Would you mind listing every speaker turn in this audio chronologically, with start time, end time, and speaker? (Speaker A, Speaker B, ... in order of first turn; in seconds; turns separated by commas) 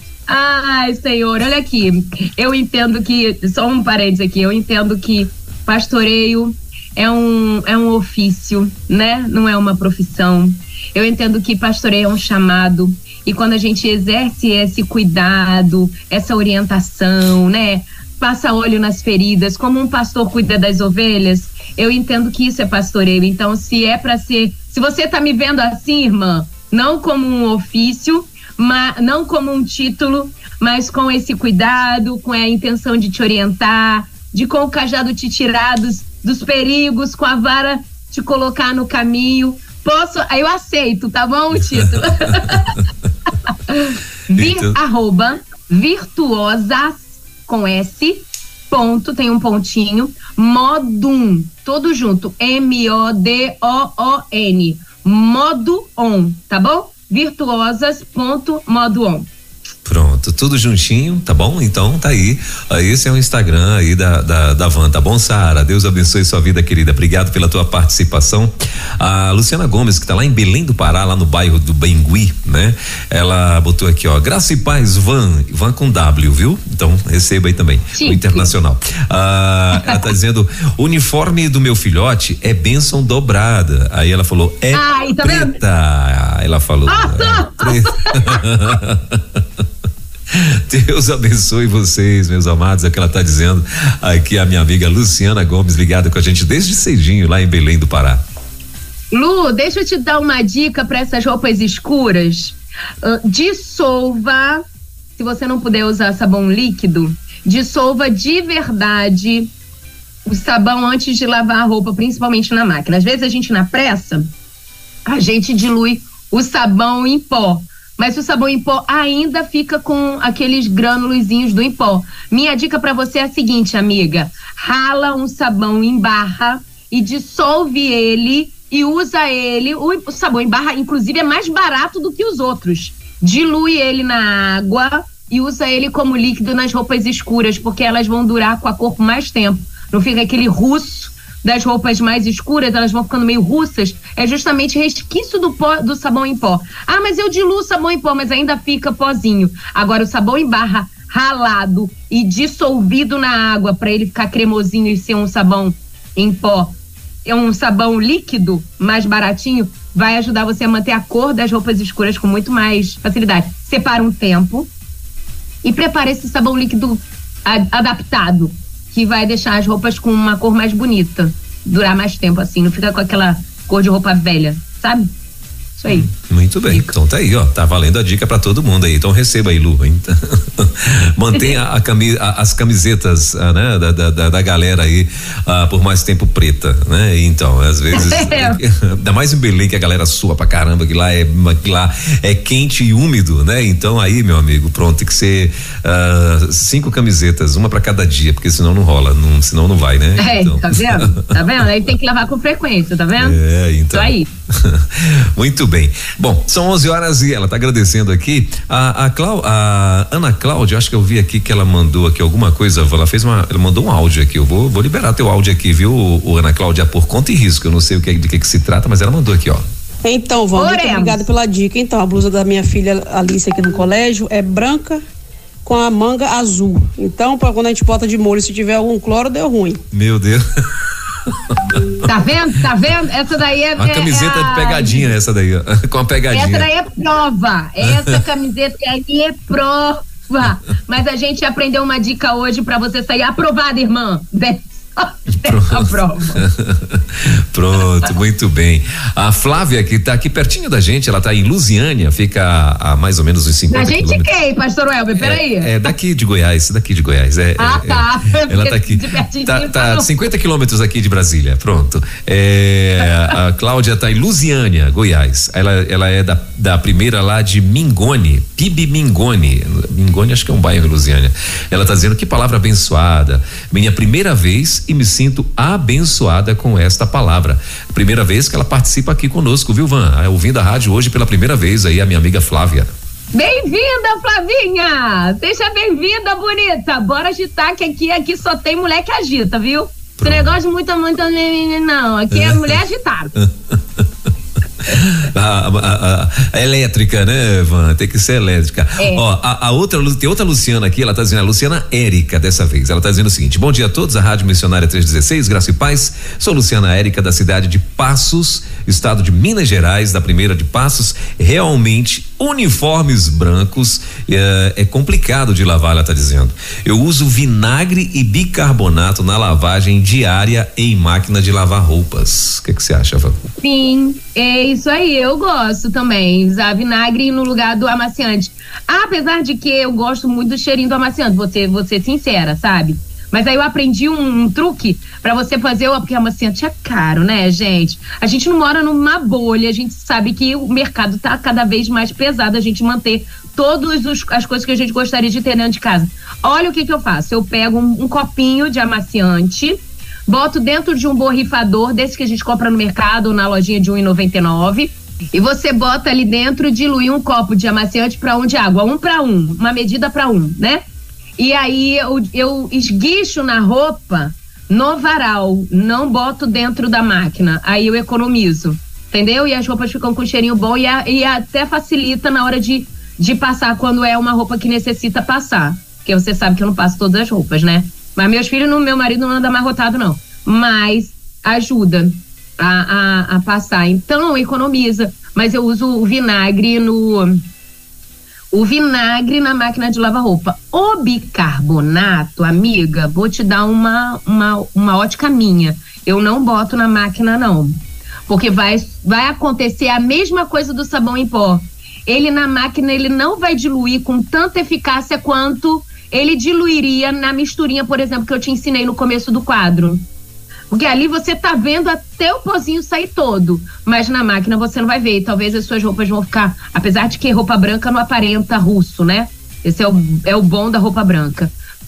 Speaker A: 0.3-42.8, Speaker B: 41.7-42.7, Speaker A: 43.5-59.3, Speaker B: 44.3-44.8, Speaker B: 59.8-89.6, Speaker A: 77.9-78.5, Speaker A: 79.7-80.0, Speaker A: 84.7-85.6, Speaker A: 86.9-88.4, Speaker B: 90.3-98.2, Speaker A: 99.1-104.6, Speaker A: 105.2-109.5, Speaker A: 110.2-114.3, Speaker A: 115.0-164.7, Speaker A: 165.6-175.1, Speaker A: 175.8-176.1, Speaker B: 175.9-201.3, Speaker A: 176.7-176.9, Speaker A: 187.9-188.6, Speaker A: 200.2-203.4, Speaker B: 203.2-219.6, Speaker A: 203.9-204.3, Speaker C: 220.0-225.0, Speaker A: 220.5-221.2, Speaker C: 225.6-229.8, Speaker B: 229.9-231.8, Speaker A: 232.0-235.1, Speaker B: 233.8-236.7, Speaker A: 236.3-246.4, Speaker B: 237.8-238.2, Speaker B: 245.4-254.3, Speaker A: 253.7-255.9, Speaker B: 255.1-282.9, Speaker A: 257.6-260.1, Speaker A: 283.3-293.3, Speaker B: 290.2-290.6, Speaker B: 292.3-292.8, Speaker B: 293.4-294.1, Speaker B: 294.9-323.4, Speaker A: 299.0-299.2, Speaker A: 323.6-360.8, Speaker A: 361.4-387.4, Speaker A: 388.5-410.0, Speaker A: 410.7-421.5